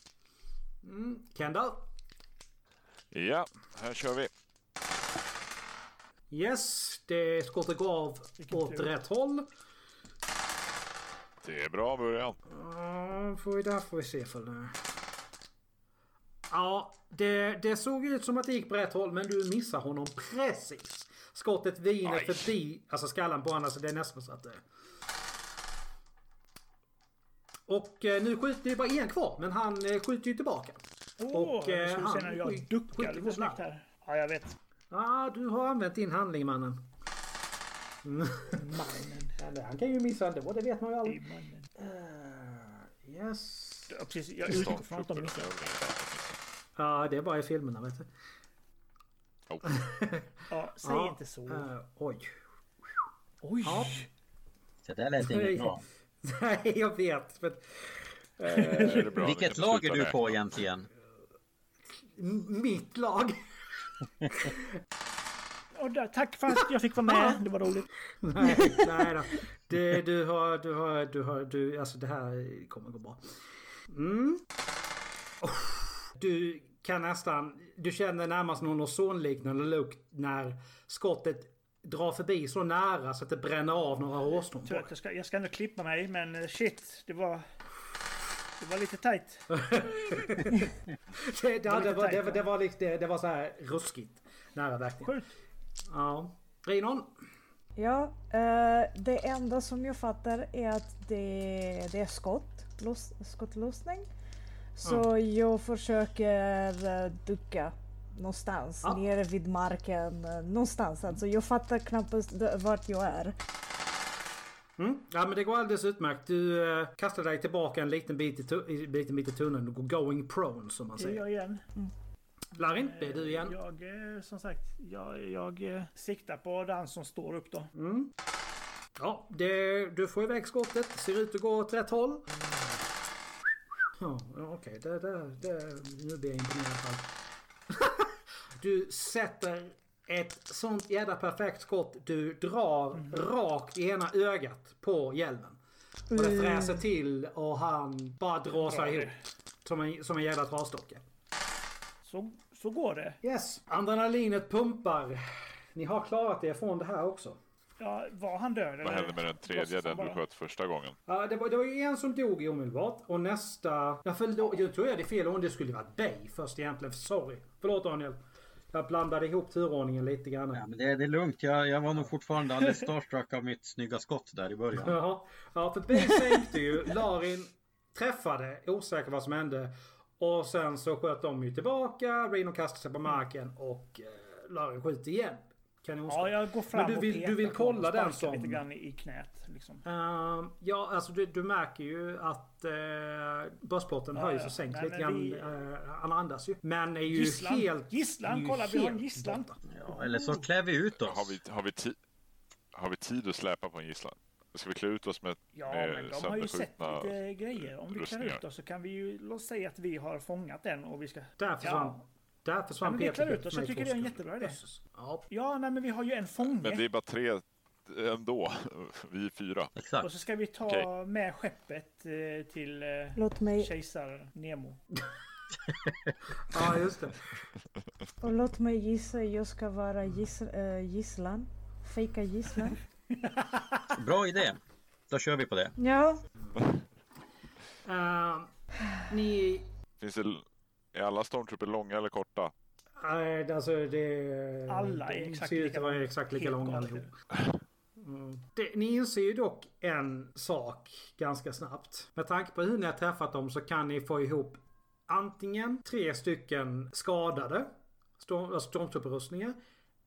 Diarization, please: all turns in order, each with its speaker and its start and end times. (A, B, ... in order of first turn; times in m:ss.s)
0:00.8-0:01.9 A
0:03.1-0:04.3 B
0:06.3-0:09.5 A
0:08.4-0:08.9 C
0:11.4-0:12.4 B
0:12.4-0:14.8 A
0:16.5-0:24.6 A
0:22.0-0:22.5 B
0:27.7-0:33.6 A
0:31.2-0:34.6 C
0:34.9-0:36.8 A
0:38.0-0:38.6 A
0:38.5-0:39.4 C
0:39.4-0:41.2 A
0:41.0-0:41.7 C
0:41.8-0:44.0 A
0:43.9-0:45.5 C
0:44.4-0:46.4 B
0:46.8-0:48.1 A
0:49.5-0:49.8 B
0:49.6-0:52.3 A
0:50.5-0:51.7 C
0:53.4-0:54.1 C
0:53.6-0:54.1 A
0:54.8-0:55.8 D
0:55.2-0:59.3 A
0:58.5-0:59.0 C
0:58.7-1:00.4 B
0:59.2-1:00.9 D
1:02.0-1:03.4 A
1:04.3-1:04.7 A
1:05.7-1:07.9 C
1:07.0-1:07.4 A
1:08.2-1:13.2 A
1:13.9-1:14.4 A
1:15.4-1:24.9 A
1:24.6-1:27.4 C
1:28.6-1:30.4 C
1:29.5-1:35.1 A
1:31.6-1:32.4 C
1:35.0-1:35.3 C
1:35.9-1:37.1 A
1:37.8-1:44.1 E
1:44.8-1:53.3 E
1:54.8-2:01.2 A
2:01.0-2:01.7 C
2:02.5-2:03.6 A
2:02.8-2:07.7 C
2:07.7-2:08.1 A
2:09.0-2:12.7 A
2:14.0-2:17.1 A
2:17.7-2:25.6 A
2:26.1-2:31.0 A
2:26.1-2:26.7 C
2:28.6-2:29.2 C
2:32.0-2:33.2 C
2:33.2-2:37.4 A
2:37.8-2:40.2 C
2:38.8-2:41.0 B
2:41.1-2:48.2 A
2:48.7-2:50.6 A
2:50.5-2:55.0 D
2:54.7-3:08.6 A
3:06.1-3:09.8 C
3:09.8-3:19.6 A
3:14.1-3:15.5 C
3:17.0-3:20.5 C
3:19.7-3:21.4 D
3:21.0-3:22.0 B
3:22.7-3:27.2 B
3:25.5-3:32.0 C
3:27.9-3:28.4 B
3:31.4-3:35.2 A
3:32.8-3:34.6 C
3:35.3-3:36.8 C
3:36.5-3:39.7 B
3:39.8-3:40.1 D
3:40.0-3:44.8 C
3:43.2-3:43.7 E
3:45.7-3:46.1 D
3:46.5-3:47.4 A
3:48.2-3:52.8 E
3:53.4-3:53.8 A
3:53.9-3:55.7 D
3:55.8-3:56.2 E
3:57.8-3:58.5 A
3:59.1-3:59.7 A
4:00.0-4:02.5 B
4:03.0-4:07.1 A
4:04.7-4:07.1 C
4:08.0-4:19.6 A